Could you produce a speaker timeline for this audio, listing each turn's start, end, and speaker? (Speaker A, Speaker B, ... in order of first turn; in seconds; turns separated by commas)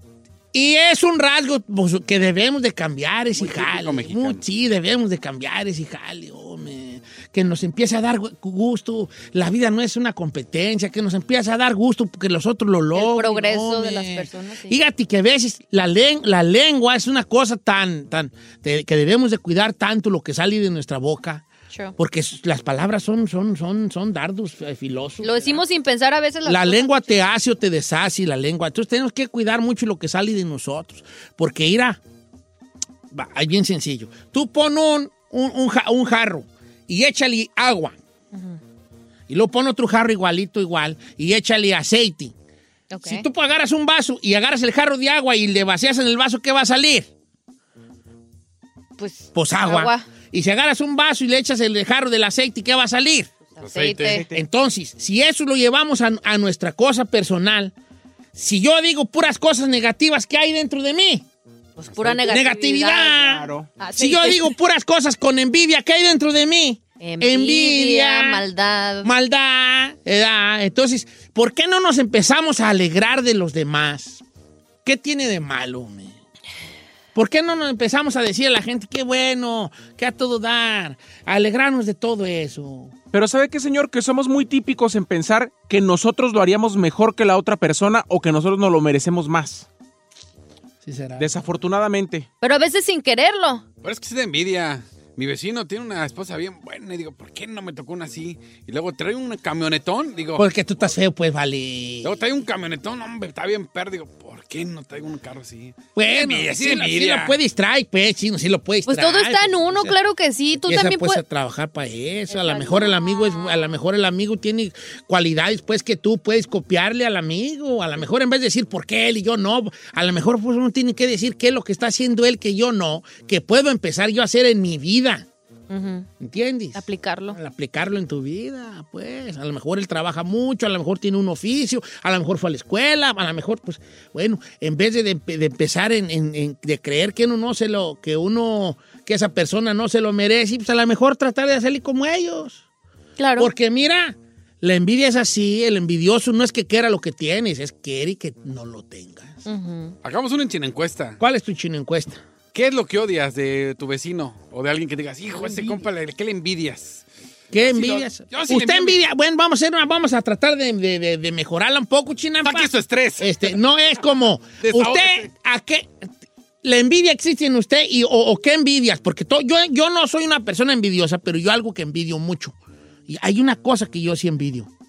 Speaker A: 0.5-21.4, Speaker B: 3.4-4.4, Speaker C: 12.9-14.8, Speaker A: 22.0-25.6, Speaker C: 25.2-27.2, Speaker A: 26.4-32.0, Speaker A: 33.1-38.0, Speaker C: 38.3-38.6, Speaker A: 39.3-42.3, Speaker C: 42.9-43.3, Speaker A: 43.0-47.1, Speaker C: 49.0-50.1, Speaker A: 49.3-53.3, Speaker B: 53.6-54.2, Speaker C: 53.6-54.3, Speaker D: 54.1-54.4, Speaker A: 54.3-57.7, Speaker A: 58.4-61.2, Speaker C: 61.8-64.5, Speaker D: 62.0-62.3, Speaker A: 62.3-68.4, Speaker D: 63.2-63.7, Speaker C: 67.0-69.1, Speaker A: 69.0-74.2, Speaker A: 74.8-76.2, Speaker A: 77.2-82.9, Speaker D: 83.1-89.7, Speaker A: 90.8-91.3, Speaker D: 91.2-92.3, Speaker C: 92.4-93.6, Speaker B: 93.8-100.4, Speaker A: 100.4-102.1, Speaker B: 102.0-107.3, Speaker A: 106.0-110.0, Speaker C: 108.9-111.2, Speaker A: 110.7-125.3, Speaker C: 112.3-113.6, Speaker C: 125.7-126.1, Speaker A: 126.2-142.6, Speaker C: 126.8-127.4, Speaker C: 143.2-143.5, Speaker A: 143.4-149.4, Speaker C: 149.5-150.0, Speaker B: 150.0-151.2, Speaker A: 151.2-152.2, Speaker B: 152.5-157.1, Speaker A: 157.5-165.9, Speaker B: 157.6-159.0, Speaker B: 162.4-163.6, Speaker B: 164.6-165.3, Speaker A: 166.6-172.6, Speaker A: 173.1-174.7